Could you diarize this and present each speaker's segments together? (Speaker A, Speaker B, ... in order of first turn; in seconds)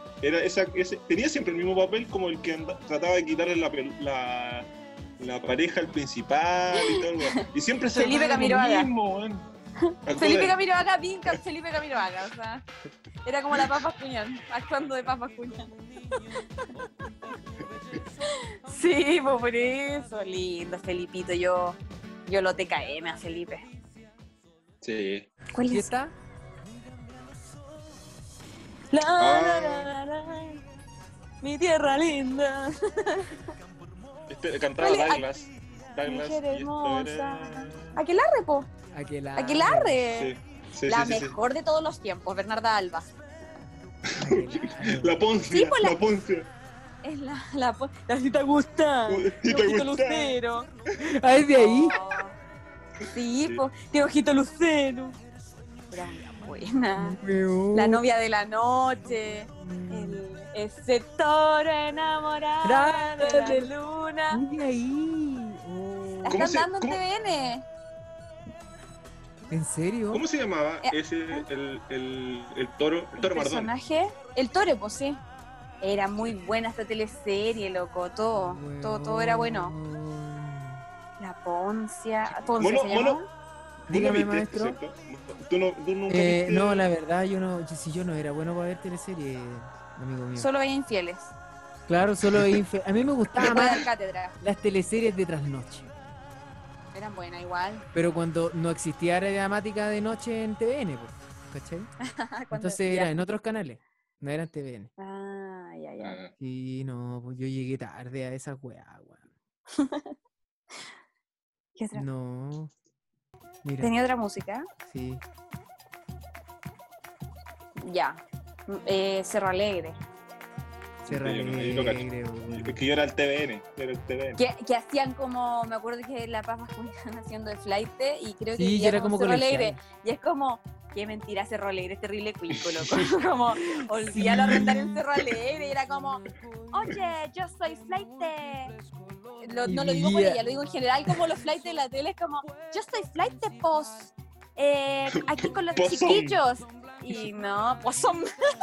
Speaker A: 0.2-4.7, 5.2-9.5, 10.1-10.6, 24.8-25.3, 29.2-29.9, 34.3-38.0, 40.1-41.4, 44.1-46.5, 49.1-50.4, 66.3-67.0, 70.1-73.7, 82.5-83.2, 83.9-86.9, 92.3-92.6, 106.0-106.3, 121.0-124.4, 132.5-133.0, 145.7-146.4
Speaker B: 6.7-8.9, 9.8-12.6, 13.2-15.7, 18.2-23.6, 25.5-25.9, 28.9-30.6, 31.4-33.5, 34.8-35.2, 36.0-38.7, 39.4-40.3, 40.9-43.1, 45.5-46.0, 47.0-50.7, 51.5-52.4, 53.0-55.2, 55.9-57.2, 57.7-64.4, 66.2-67.6, 70.8-71.5, 73.2-75.2, 75.8-79.7, 81.2-83.3, 90.4-91.3, 93.4-94.4, 96.9-97.8, 102.0-103.1, 105.0-106.2, 109.7-110.1, 111.8-112.0, 113.8-114.7, 117.8-120.0, 124.4-138.7, 139.4-148.3
Speaker C: 25.7-26.1, 38.9-40.0, 44.1-45.2, 51.0-52.0, 57.0-58.0, 59.6-60.2, 62.6-63.7, 64.3-66.4, 69.5-70.2, 78.3-80.8, 83.9-84.8, 86.1-90.5, 91.9-93.8, 94.4-95.9, 97.9-101.9, 102.5-104.9, 106.4-109.2, 111.9-112.7, 113.6-113.9, 114.8-115.2, 121.1-122.8, 128.6-129.8, 133.6-135.0, 139.7-140.4